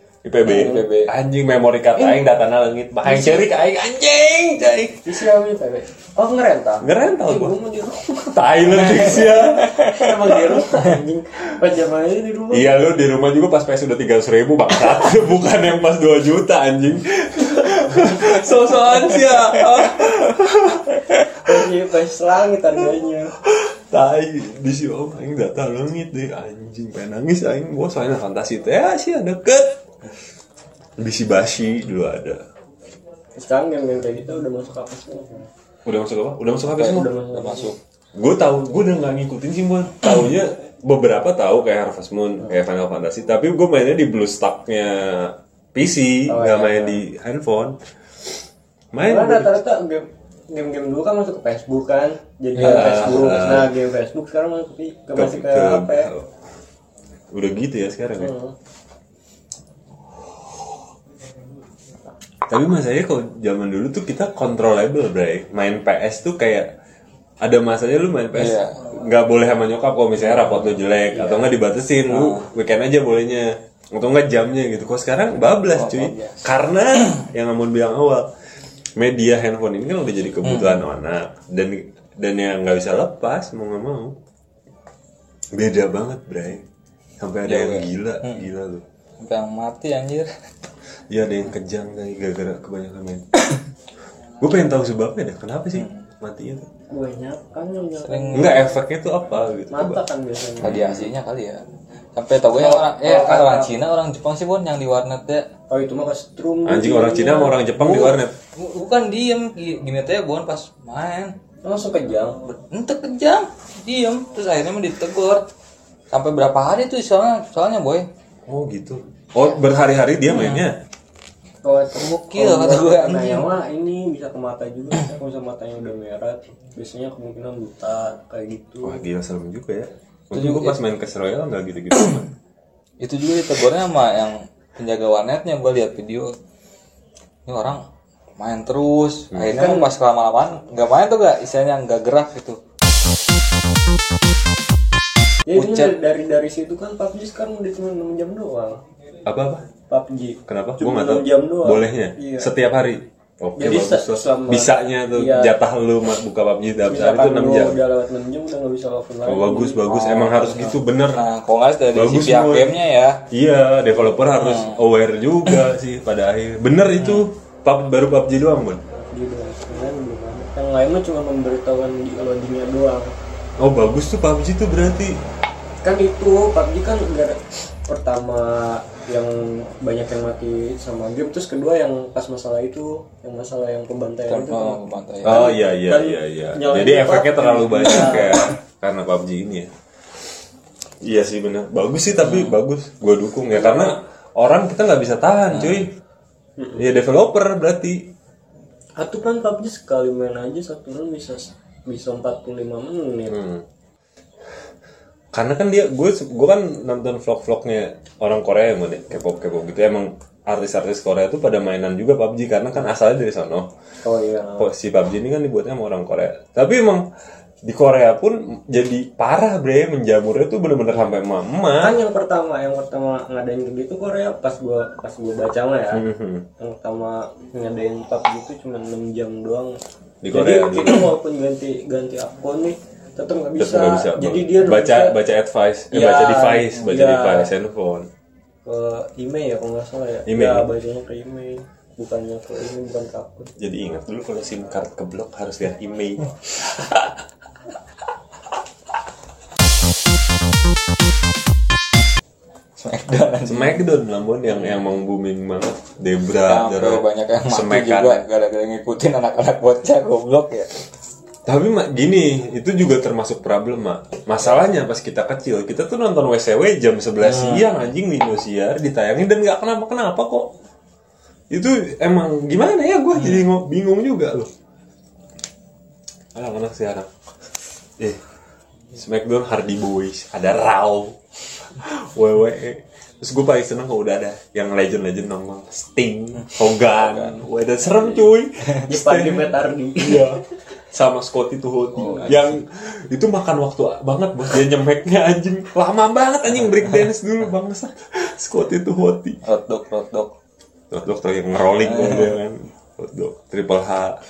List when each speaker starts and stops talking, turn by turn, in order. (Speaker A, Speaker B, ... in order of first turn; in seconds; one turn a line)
Speaker A: 0.2-5.1
Speaker B: 0.5-0.9
Speaker C: 0.5-1.1
Speaker B: 2.0-2.3
Speaker B: 5.0-12.7
Speaker A: 6.8-7.5
Speaker A: 8.3-10.6
Speaker A: 12.5-21.1
Speaker B: 21.4-23.4
Speaker A: 23.5-29.8
Speaker A: 31.0-32.4
Speaker B: 33.4-35.5
Speaker A: 35.9-37.1
Speaker B: 36.7-37.8
Speaker C: 36.8-37.8
Speaker A: 38.2-47.8
Speaker B: 46.3-47.0
Speaker A: 48.9-49.6
Speaker B: 49.1-56.1
Speaker A: 52.6-53.7
Speaker C: 52.6-53.6
Speaker A: 55.2-56.3
Speaker A: 57.3-58.3
Speaker B: 58.2-58.5
Speaker A: 62.5-66.7
Speaker A: 67.4-78.3
Speaker C: 68.3-68.8
Speaker B: 71.1-71.6
Speaker C: 75.7-76.4
Speaker A: 79.0-84.2
Speaker C: 80.4-80.8
Speaker A: 85.5-86.7
Speaker A: 87.2-88.8
Speaker C: 87.5-88.5
Speaker C: 89.2-90.3
Speaker A: 91.1-93.2
Speaker A: 94.4-96.7
Speaker C: 95.8-96.0
Speaker B: 96.9-98.7
Speaker C: 98.0-98.7
Speaker A: 98.3-100.0
Speaker B: 99.7-100.8
Speaker A: 100.6-101.1
Speaker C: 100.6-101.6
Speaker C: 102.2-105.5
Speaker B: 102.5-103.7
Speaker B: 105.7-108.2
Speaker A: 106.7-108.3
Speaker C: 108.5-111.3
Speaker B: 111.6-112.5
Speaker C: 112.5-115.5
Speaker C: 116.1-118.1
Speaker A: 118.5-120.8
Speaker C: 120.3-120.6
Speaker B: 121.6-129.0
Speaker C: 121.9-123.5
Speaker A: 128.8-132.3
Speaker C: 130.3-130.8
Speaker C: 131.9-132.2
Speaker C: 133.0-136.4
Speaker C: 137.5-137.8
Speaker C: 138.4-142.6
Speaker A: 139.3-139.6
Speaker B: 139.6-139.9
Speaker B: 145.5-148.8
Speaker C: 145.6-145.9
Speaker A: 149.2-149.7
Speaker B: 149.9-152.5
Speaker A: 150.5-157.8
Speaker B: 153.6-155.5
Speaker B: 156.9-159.9
Speaker A: 159.2-161.3
Speaker C: 159.9-163.2
Speaker A: 161.9-162.7
Speaker A: 163.3-168.8
Speaker C: 164.3-164.8
Speaker B: 169.1-173.1
Speaker A: 173.6-175.2
Speaker B: 175.8-188.5
Speaker C: 184.3-185.6
Speaker A: 185.2-189.7
Speaker A: 191.0-195.9
Speaker C: 192.2-192.6
Speaker B: 193.5-193.9
Speaker C: 195.5-195.8
Speaker A: 196.8-198.1
Speaker B: 199.0-203.4
Speaker A: 203.3-203.7
Speaker A: 205.3-213.7
Speaker B: 214.0-214.7
Speaker A: 214.6-217.0
Speaker A: 217.7-222.0
Speaker B: 221.8-226.0
Speaker A: 225.9-226.5
Speaker B: 226.6-229.7
Speaker A: 230.2-231.1
Speaker B: 230.3-235.2
Speaker A: 233.6-238.1
Speaker B: 235.9-237.5
Speaker B: 238.7-243.5
Speaker A: 240.3-240.7
Speaker A: 243.6-247.1
Speaker C: 252.8-253.8
Speaker A: 253.5-258.2
Speaker C: 256.4-260.7
Speaker A: 261.5-270.5
Speaker C: 267.3-267.6
Speaker A: 271.5-274.5
Speaker A: 276.4-277.1
Speaker A: 278.9-281.2
Speaker A: 281.7-299.4
Speaker B: 288.9-290.4
Speaker C: 299.4-300.3
Speaker A: 300.9-304.2